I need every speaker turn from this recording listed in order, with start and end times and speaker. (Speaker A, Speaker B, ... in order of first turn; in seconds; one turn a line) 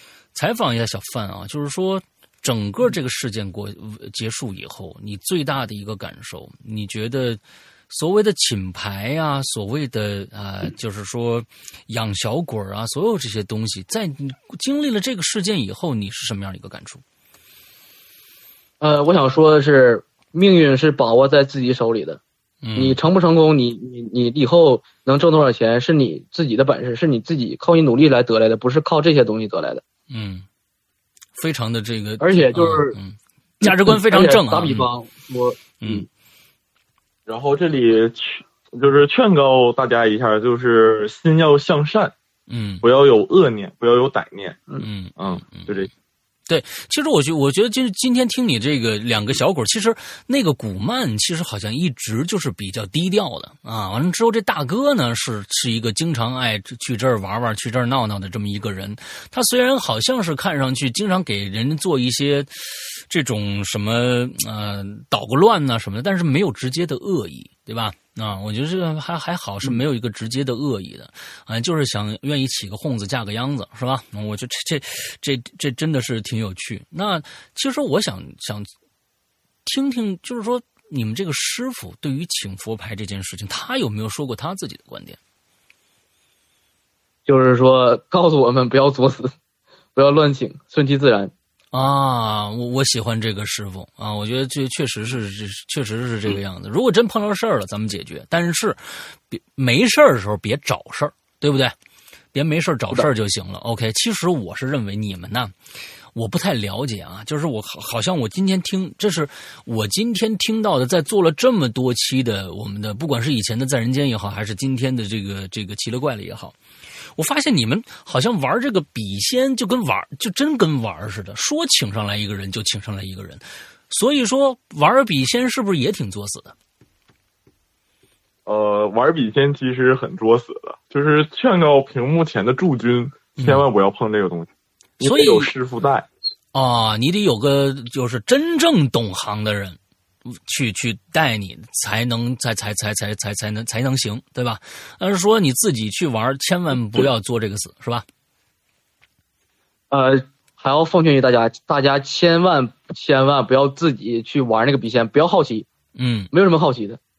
Speaker A: 0.3-17.0
Speaker B: 18.8-22.2
Speaker A: 22.6-23.0
Speaker B: 22.8-29.8
Speaker A: 30.1-30.5
Speaker A: 31.4-34.9
Speaker B: 32.2-33.0
Speaker B: 33.6-36.1
Speaker A: 35.8-36.1
Speaker C: 37.3-42.1
Speaker A: 42.5-42.8
Speaker C: 42.8-44.6
Speaker A: 44.8-45.9
Speaker C: 45.2-45.9
Speaker A: 46.5-78.7
Speaker A: 79.7-85.2
Speaker B: 87.3-89.3
Speaker B: 90.0-91.3
Speaker A: 91.7-101.8
Speaker A: 102.3-105.5
Speaker A: 106.1-116.6
Speaker A: 117.2-126.5
Speaker C: 128.5-136.1
Speaker A: 133.4-133.7
Speaker A: 135.0-135.5
Speaker A: 136.5-148.1
Speaker B: 149.9-155.7
Speaker A: 156.0-156.3
Speaker B: 156.3-157.0